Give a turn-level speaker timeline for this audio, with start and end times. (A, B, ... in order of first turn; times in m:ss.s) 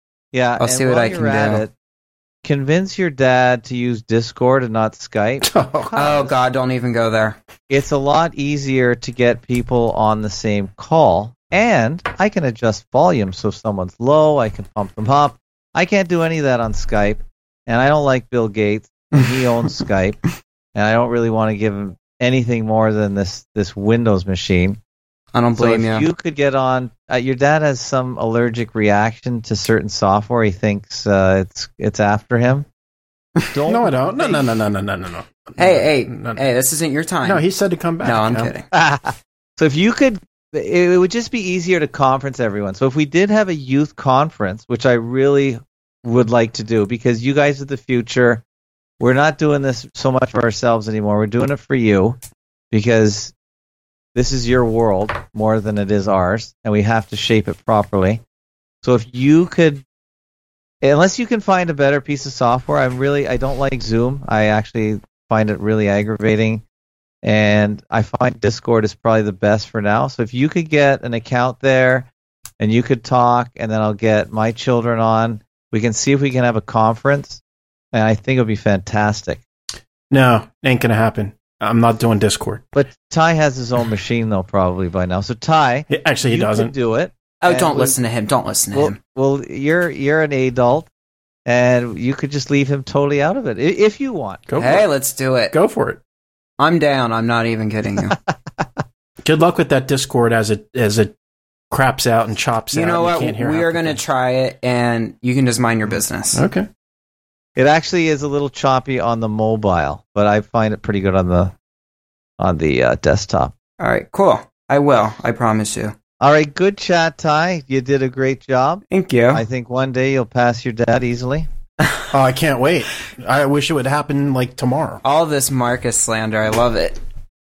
0:00.3-0:01.7 A
0:00.6-0:01.6 B
0:02.4-0:06.3 A
0:05.4-0:06.0 C
0:06.0-0:07.4 B
0:07.7-0:20.2 A
0:20.8-0:24.8 A
0:25.3-0:26.1 B
0:25.6-0:32.7 A
0:33.5-0:34.4 A
0:33.7-0:36.4 C
0:35.6-0:37.4 B
0:37.2-0:38.5 C
0:38.0-0:38.6 B
0:38.7-0:48.4 A
0:49.0-0:52.2 A
0:52.7-0:53.3 A
0:54.1-0:58.2 A
0:58.8-0:59.8 A
1:00.8-1:06.6 A
1:07.2-1:12.1 A
1:12.6-1:17.4 A
1:17.9-1:19.4 A
1:20.1-1:22.7 C
1:22.7-1:28.0 A
1:25.9-1:26.7 C
1:27.4-1:29.0 B
1:28.7-1:30.9 A
1:31.5-1:34.4 A
1:34.5-1:34.9 C
1:34.6-1:35.5 B
1:35.5-1:36.0 C
1:36.6-1:38.2 B
1:39.2-1:41.1 C
1:41.7-1:44.0 C
1:42.7-1:46.4 B
1:46.3-1:46.7 C
1:47.6-1:51.5 A
1:52.4-1:53.5 A
1:53.8-1:56.0 B
1:56.2-2:01.5 A
1:58.9-1:59.4 B
2:02.1-2:05.0 C
2:05.0-2:07.0 B